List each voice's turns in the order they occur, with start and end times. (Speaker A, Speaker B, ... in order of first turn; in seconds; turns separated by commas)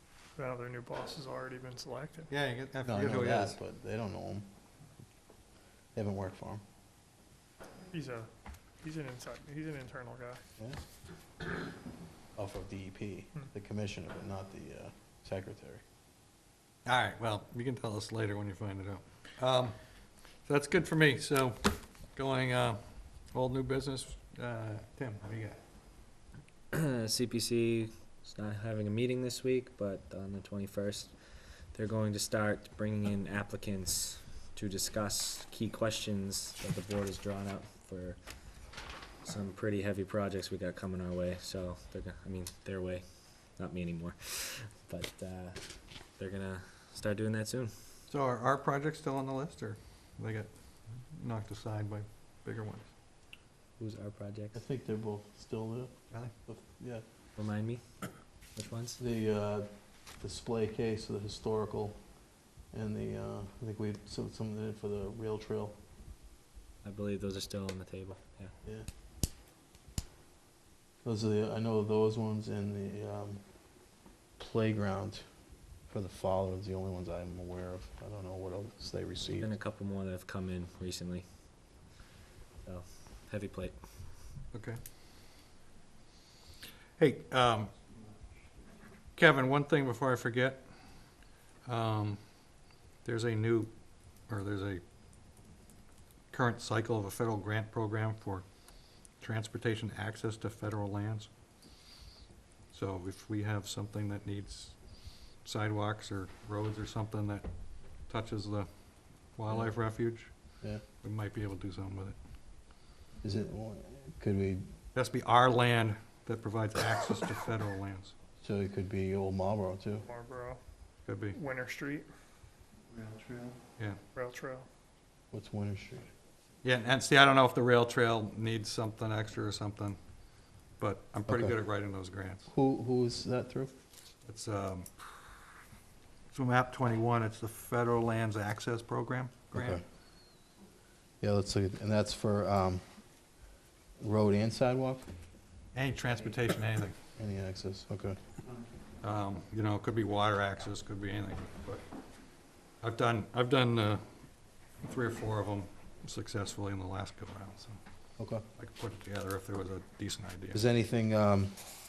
Speaker A: 0.3-2.3, Speaker B: 2.3-3.6, Speaker C: 2.8-4.5, Speaker C: 5.9-6.6, Speaker A: 7.9-8.3, Speaker A: 8.8-10.4, Speaker C: 12.3-15.8, Speaker B: 16.9-19.8, Speaker B: 20.4-25.6, Speaker D: 26.7-38.2, Speaker D: 39.2-47.7, Speaker B: 48.1-52.9, Speaker D: 53.8-54.6, Speaker C: 54.5-55.9, Speaker C: 56.5-57.0, Speaker D: 57.4-59.0, Speaker C: 59.0-62.0, Speaker C: 62.7-65.8, Speaker D: 66.8-68.5, Speaker C: 71.0-73.4, Speaker C: 74.4-75.2, Speaker C: 75.9-79.5, Speaker D: 79.4-81.2, Speaker D: 82.6-83.8, Speaker B: 84.5-84.8, Speaker B: 87.0-87.7, Speaker B: 89.2-90.6, Speaker B: 91.6-92.2, Speaker B: 93.0-93.7, Speaker B: 94.3-94.8, Speaker B: 96.3-98.5, Speaker B: 99.2-101.3, Speaker B: 102.7-104.8, Speaker B: 105.4-107.5, Speaker B: 108.1-108.7, Speaker B: 109.3-110.3, Speaker B: 111.0-112.2, Speaker C: 113.2-114.6, Speaker B: 114.9-118.1, Speaker C: 118.4-120.0, Speaker A: 120.0-120.6, Speaker B: 121.1-121.3, Speaker A: 121.3-122.1, Speaker A: 124.1-124.7, Speaker C: 125.3-126.1, Speaker B: 126.6-130.0, Speaker B: 130.8-132.5, Speaker C: 131.2-131.5, Speaker C: 132.5-133.7, Speaker B: 134.2-135.2, Speaker B: 136.3-139.8, Speaker C: 139.5-139.8, Speaker C: 141.2-142.8, Speaker C: 144.0-145.1, Speaker B: 145.7-146.9, Speaker C: 147.2-148.2, Speaker B: 149.0-151.8, Speaker B: 152.8-154.0, Speaker B: 154.8-157.8, Speaker C: 158.2-158.4, Speaker B: 158.6-160.6, Speaker C: 160.5-161.6